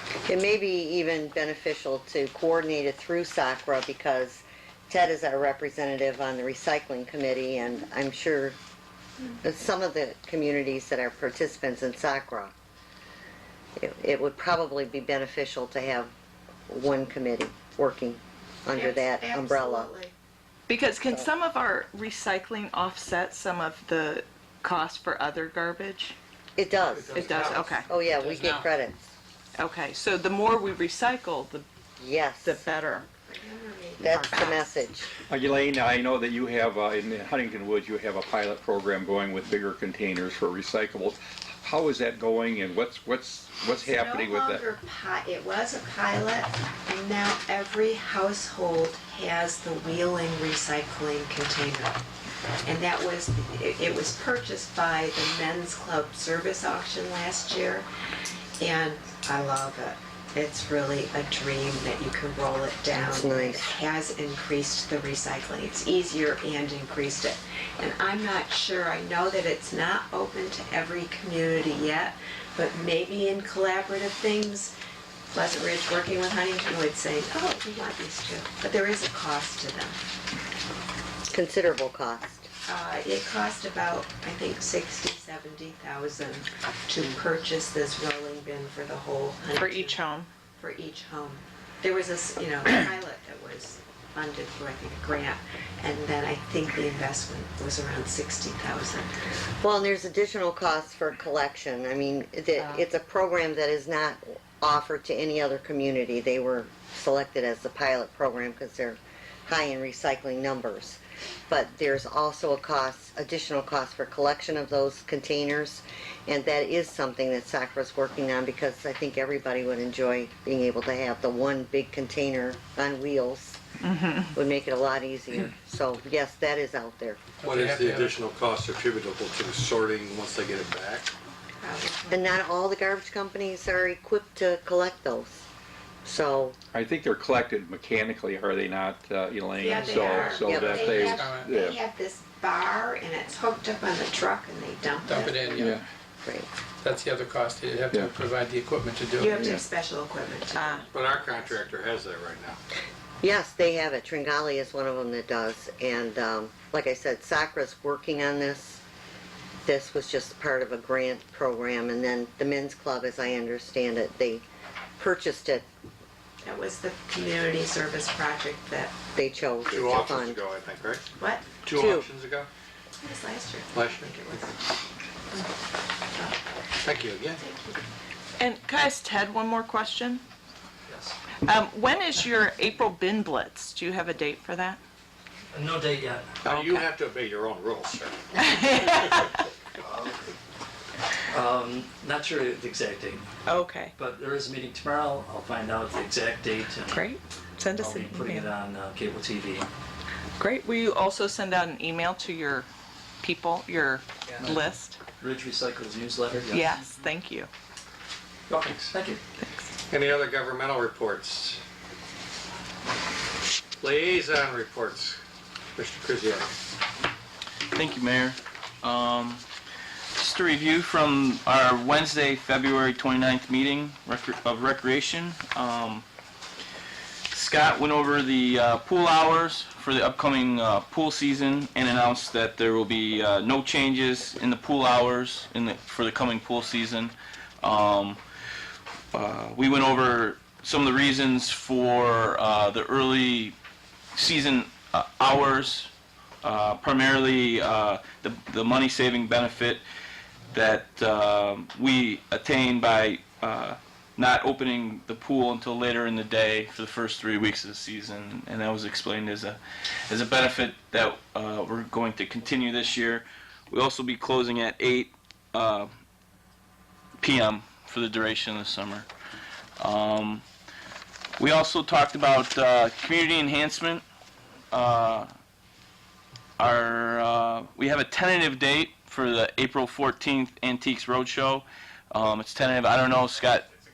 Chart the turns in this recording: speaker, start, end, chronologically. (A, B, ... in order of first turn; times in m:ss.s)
0:00.2-0:08.6 A
0:09.4-0:12.5 A
0:13.8-0:16.1 A
0:16.7-0:19.9 A
0:18.7-0:20.1 B
0:20.7-0:26.2 C
0:26.6-0:29.1 A
0:26.9-0:28.7 D
0:27.1-0:27.9 C
0:29.6-0:31.6 C
0:32.0-0:32.6 A
0:32.4-0:33.0 C
0:33.3-0:34.6 B
0:34.0-0:35.1 A
0:35.3-0:44.6 E
0:43.8-0:52.0 B
0:52.6-0:57.9 B
0:58.6-1:14.7 B
1:02.9-1:03.7 A
1:15.3-1:20.0 B
1:21.3-1:22.5 A
1:22.7-1:30.0 B
1:29.5-1:30.3 C
1:30.6-1:39.1 B
1:39.6-2:03.6 A
2:03.8-2:04.3 C
2:04.3-2:07.2 A
2:07.4-2:08.2 D
2:07.4-2:11.1 F
2:11.6-2:12.3 B
2:12.1-2:15.4 A
2:16.0-2:16.6 A
2:16.7-2:21.8 E
2:19.6-2:25.7 B
2:19.7-2:21.5 D
2:20.4-2:20.9 A
2:25.0-2:25.8 D
2:25.6-2:25.8 E
2:26.2-2:26.5 A
2:26.8-2:29.6 D
2:29.2-2:31.6 B
2:30.5-2:30.8 C
2:30.9-2:32.6 F
2:33.2-2:38.8 A
2:39.6-2:44.4 A
2:45.0-2:45.6 A
2:46.4-2:48.9 B
2:49.2-2:50.4 A
2:49.7-2:51.0 F
2:51.2-2:51.5 B
2:51.6-2:52.5 F
2:51.7-2:52.1 A
2:53.0-2:54.6 B
2:53.7-2:54.4 F
2:56.8-2:57.4 F
2:57.4-2:57.8 B
2:58.4-3:00.2 C
3:00.9-3:01.2 G
3:01.4-3:04.8 C
3:05.5-3:06.4 G
3:06.4-3:08.2 F
3:06.5-3:06.8 C
3:08.5-3:09.4 C
3:09.9-3:10.1 G
3:11.3-3:13.3 G
3:13.4-3:14.0 C
3:14.0-3:17.0 G
3:16.9-3:18.5 C
3:17.7-3:19.7 G
3:20.4-3:22.7 C
3:23.2-3:25.0 C
3:24.3-3:24.6 G
3:25.2-3:26.9 G
3:26.5-3:27.5 C
3:28.5-3:29.2 G
3:28.6-3:28.9 F
3:29.9-3:31.6 F
3:33.8-3:35.2 F
3:35.8-3:36.5 F
3:37.7-3:39.4 H
3:40.2-3:46.0 H
3:47.3-3:58.2 H
3:59.1-4:03.5 H
4:04.1-4:05.9 H
4:06.4-4:09.8 H
4:10.5-4:25.9 H
4:27.2-4:29.1 H
4:29.8-4:30.4 H
4:31.4-4:34.0 H
4:34.7-4:35.3 H
4:36.6-4:43.7 H